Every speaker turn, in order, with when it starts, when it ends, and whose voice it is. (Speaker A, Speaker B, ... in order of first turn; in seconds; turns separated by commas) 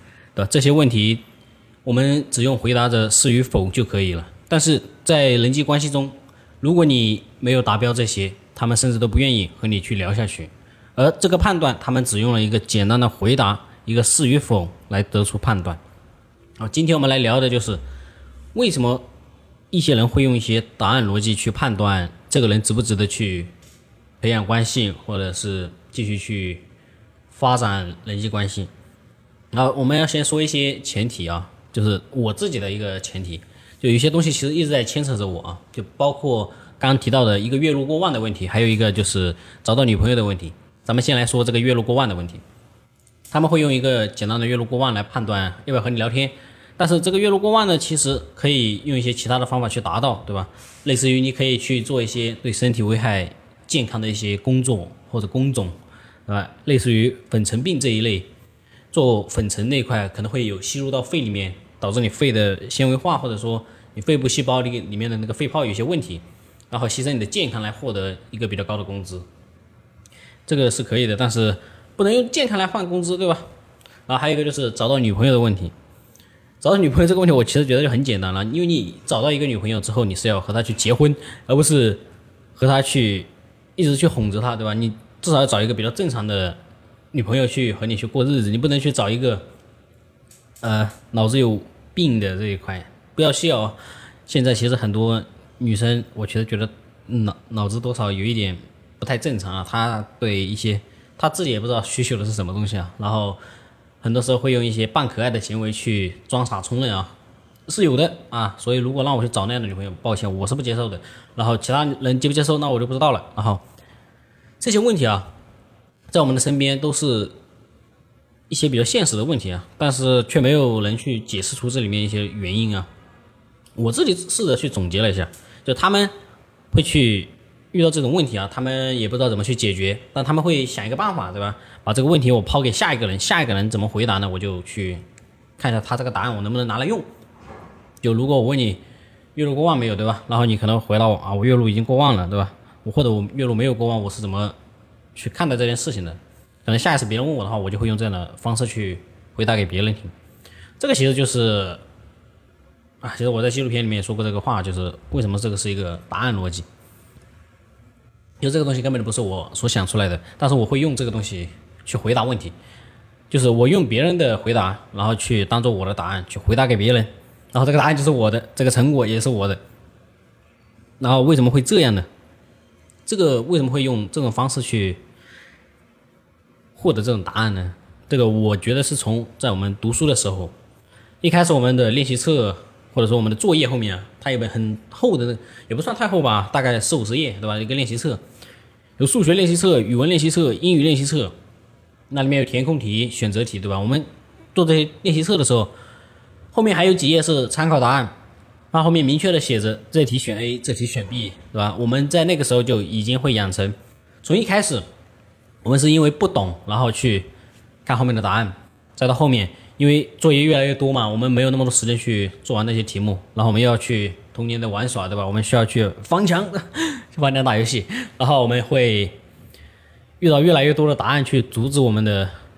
Speaker A: 0.4-1.2, Speaker A: 1.9-15.8, Speaker A: 16.6-17.8, Speaker A: 18.5-19.1, Speaker A: 19.7-23.5, Speaker A: 24.2-26.6, Speaker A: 27.3-28.7, Speaker A: 29.5-42.4, Speaker A: 43.3-55.8, Speaker A: 56.3-58.3, Speaker A: 58.9-69.2, Speaker A: 70.5-73.5, Speaker A: 74.1-75.7, Speaker A: 76.6-82.0, Speaker A: 82.6-86.6, Speaker A: 87.1-89.5, Speaker A: 90.6-103.4, Speaker A: 104.0-107.1, Speaker A: 107.7-113.6, Speaker A: 114.6-115.3, Speaker A: 116.1-117.3, Speaker A: 118.5-122.9, Speaker A: 123.8-126.1, Speaker A: 126.7-135.0, Speaker A: 135.6-137.1, Speaker A: 138.0-138.8, Speaker A: 139.3-144.6, Speaker A: 145.2-150.1, Speaker A: 150.8-151.8, Speaker A: 153.0-156.7, Speaker A: 158.4-162.5, Speaker A: 163.3-169.6, Speaker A: 171.0-172.1, Speaker A: 173.1-175.0, Speaker A: 176.8-180.5, Speaker A: 181.2-188.2, Speaker A: 189.0-191.3, Speaker A: 192.1-195.7, Speaker A: 196.5-198.1, Speaker A: 198.7-204.8, Speaker A: 205.6-207.3, Speaker A: 207.9-219.2, Speaker A: 220.2-222.3